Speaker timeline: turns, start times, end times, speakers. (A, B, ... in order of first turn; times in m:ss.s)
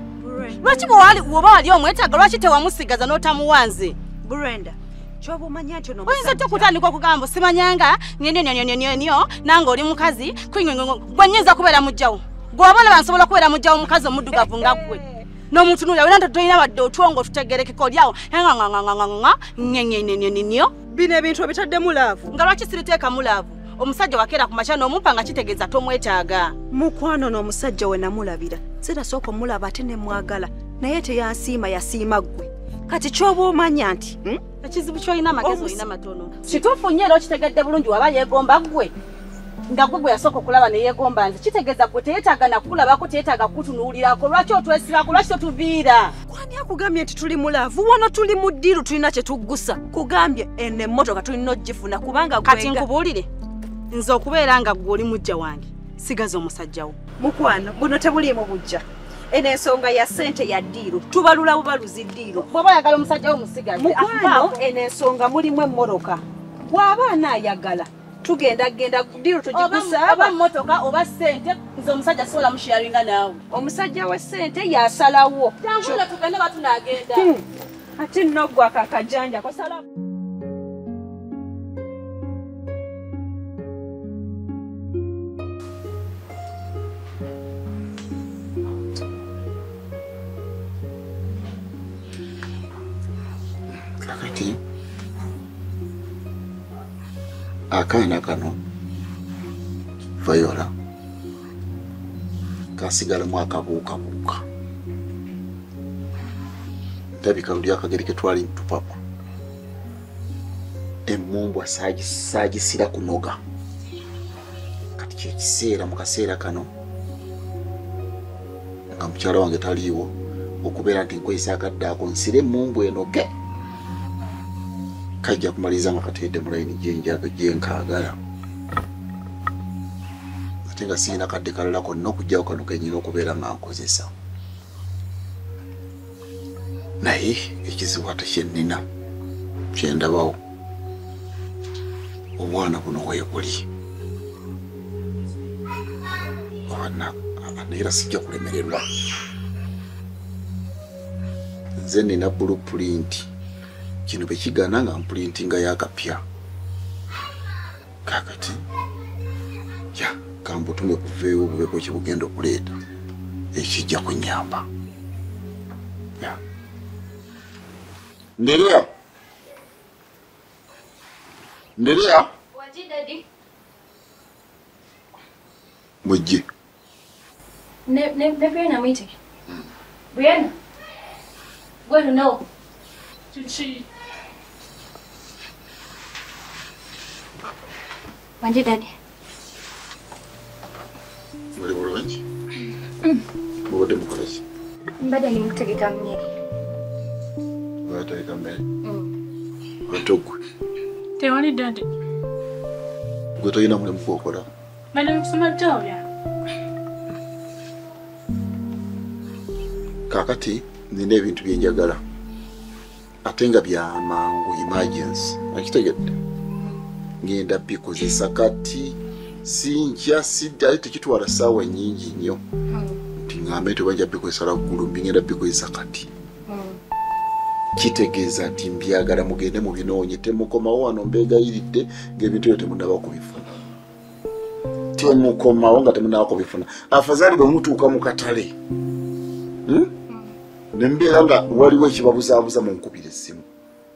0:00.2-0:00.8 A
0:00.6-0:04.0 B
0:04.2-0:06.7 A
0:06.0-0:20.7 B
0:14.4-0:14.9 A
0:20.9-0:22.3 A
0:22.3-0:26.5 B
0:26.7-0:34.4 A
0:34.6-0:38.9 B
0:35.4-0:35.8 A
0:39.7-0:46.1 B
0:46.3-0:52.9 A
0:52.4-0:53.3 B
0:53.9-0:57.0 B
0:57.2-1:02.4 A
1:02.3-1:04.6 B
1:03.8-1:10.3 A
1:09.5-1:13.4 B
1:13.5-1:16.0 A
1:15.6-1:17.3 B
1:17.1-1:17.4 A
1:18.0-1:19.8 A
1:33.9-1:34.6 C
1:37.7-1:38.6 C
1:40.2-1:40.7 C
1:42.8-1:44.4 C
1:47.2-1:49.0 C
1:51.0-1:53.4 C
1:55.0-1:56.7 C
1:58.9-2:03.3 C
2:05.2-2:08.2 C
2:10.6-2:14.1 C
2:17.0-2:18.8 C
2:19.7-2:20.4 C
2:22.4-2:23.6 C
2:26.7-2:28.8 C
2:31.8-2:33.3 C
2:34.1-2:36.2 C
2:38.0-2:38.6 C
2:39.9-2:42.7 C
2:43.5-2:44.6 C
2:48.4-2:48.9 C
2:51.8-2:52.3 C
2:52.6-2:53.2 D
2:56.0-2:56.4 C
2:57.9-2:59.1 D
3:00.1-3:00.5 D
3:01.9-3:02.4 D
3:03.3-3:03.8 E
3:08.4-3:08.8 D
3:11.5-3:12.2 C
3:13.7-3:14.4 C
3:15.0-3:16.2 D
3:17.8-3:18.6 C
3:19.9-3:20.4 C
3:21.2-3:21.8 E
3:23.4-3:24.5 C
3:24.9-3:26.0 E
3:30.1-3:32.0 C
3:33.2-3:36.2 C
3:37.2-3:42.4 C
3:43.2-3:46.1 C
3:46.5-3:46.8 D
3:47.8-3:53.5 C
3:55.0-3:58.5 C
4:00.7-4:03.4 C